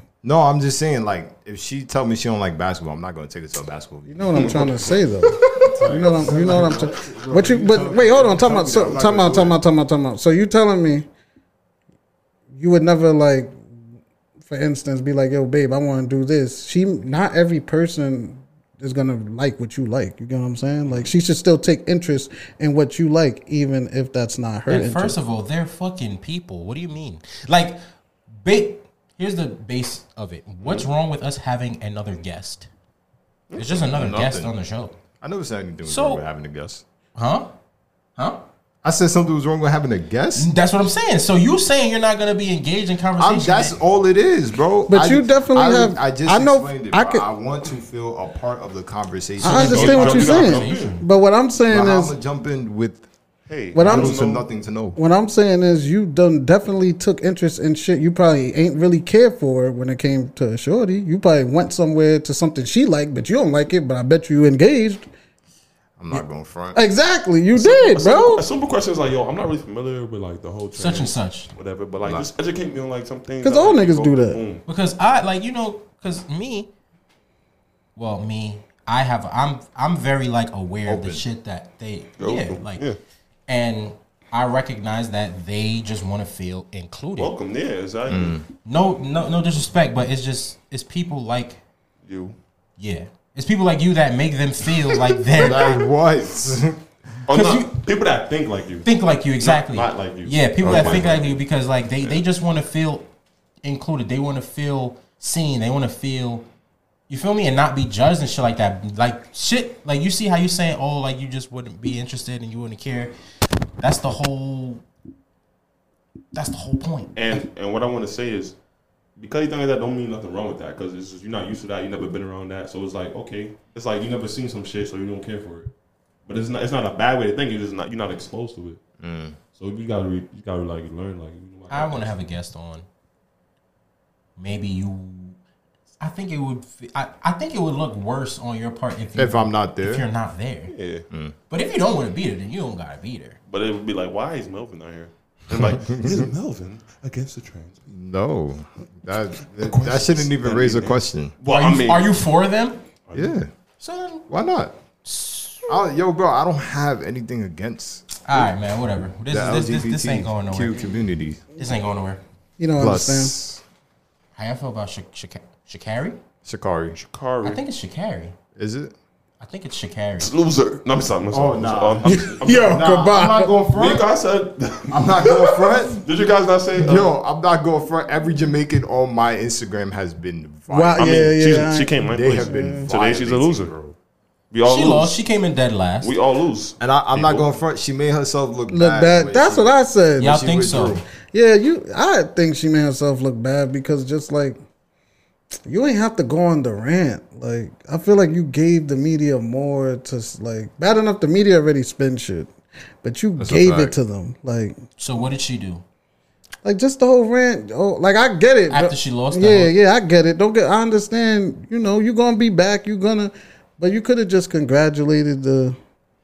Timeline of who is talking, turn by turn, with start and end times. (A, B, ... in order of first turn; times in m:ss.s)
0:00.2-0:04.9 A
0:04.1-0:11.1 B
0:04.3-0:05.0 C
0:05.5-0:09.6 A
0:06.1-0:06.9 C
0:12.5-0:13.6 B
0:14.4-0:25.2 B
0:24.7-0:27.8 D
0:28.4-0:32.7 D
0:33.5-0:33.9 C
0:33.6-0:35.0 D
0:33.9-0:34.5 A
0:35.2-0:36.8 A
0:35.8-0:36.2 D
0:37.2-0:37.5 D
0:38.8-0:40.5 A
0:40.3-0:43.8 D
0:43.2-0:50.4 A
0:44.9-0:47.2 B
0:49.4-0:52.1 B
0:49.4-0:51.0 D
0:49.4-0:51.0 C
0:51.7-0:53.0 A
0:53.5-0:54.4 C
0:53.7-0:54.2 B
0:53.8-0:55.0 A
0:55.0-1:05.0 B
1:06.0-1:06.8 A
1:06.7-1:08.4 B
1:07.5-1:14.6 C
1:10.7-1:11.5 D
1:13.4-1:14.4 B
1:14.6-1:16.7 D
1:18.0-1:22.8 D
1:20.8-1:21.2 A
1:22.2-1:23.0 C
1:23.5-1:27.3 D
1:27.2-1:28.4 C
1:28.1-1:28.4 A
1:28.6-1:31.6 D
1:32.0-1:32.4 C
1:32.8-1:35.8 D
1:35.4-1:36.8 A
1:37.3-1:38.9 C
1:37.3-1:37.8 D
1:38.8-1:43.1 D
1:39.4-1:41.4 C
1:40.6-1:41.1 A
1:43.6-1:46.4 D
1:47.1-1:53.1 D
1:53.8-1:54.8 D
1:56.3-1:57.4 D
1:57.2-1:58.5 C
1:59.2-2:05.7 C
2:06.3-2:08.8 C
2:09.0-2:09.4 A
2:09.6-2:12.2 C
2:11.7-2:12.8 D
2:14.4-2:15.4 D
2:16.0-2:20.7 D
2:19.1-2:20.0 A
2:20.7-2:21.0 C
2:21.5-2:23.4 D
2:23.5-2:27.8 C
2:25.6-2:26.3 A
2:27.9-2:31.3 A
2:29.5-2:32.1 C
2:31.4-2:32.8 D
2:33.1-2:33.3 C
2:33.1-2:33.5 A
2:33.8-2:34.2 D
2:34.3-2:34.7 A
2:35.0-2:35.7 D
2:35.7-2:38.5 A
2:38.2-2:40.8 D
2:39.3-2:41.4 A
2:41.6-2:42.2 D
2:42.6-2:43.3 B
2:42.8-2:43.6 A
2:44.4-2:46.2 D
2:46.4-2:47.0 A
2:46.9-2:47.6 C
2:47.4-2:48.4 D
2:48.6-2:48.9 A
2:49.4-2:50.3 D
2:50.2-2:52.9 C
2:51.3-2:54.1 A
2:52.0-2:53.5 B
2:53.7-2:57.1 C
2:54.9-2:56.0 A
2:56.8-3:01.4 A
3:00.7-3:02.9 B
3:01.0-3:03.7 C
3:02.1-3:03.9 A
3:04.5-3:05.2 C
3:04.6-3:06.1 D
3:06.0-3:07.5 C
3:06.8-3:11.0 A
3:08.7-3:10.4 B
3:10.2-3:11.0 D
3:11.2-3:14.6 B
3:15.6-3:22.5 B
3:23.0-3:24.8 B
3:23.4-3:24.0 A
3:25.0-3:25.8 D
3:26.6-3:35.8 B
3:28.7-3:29.7 D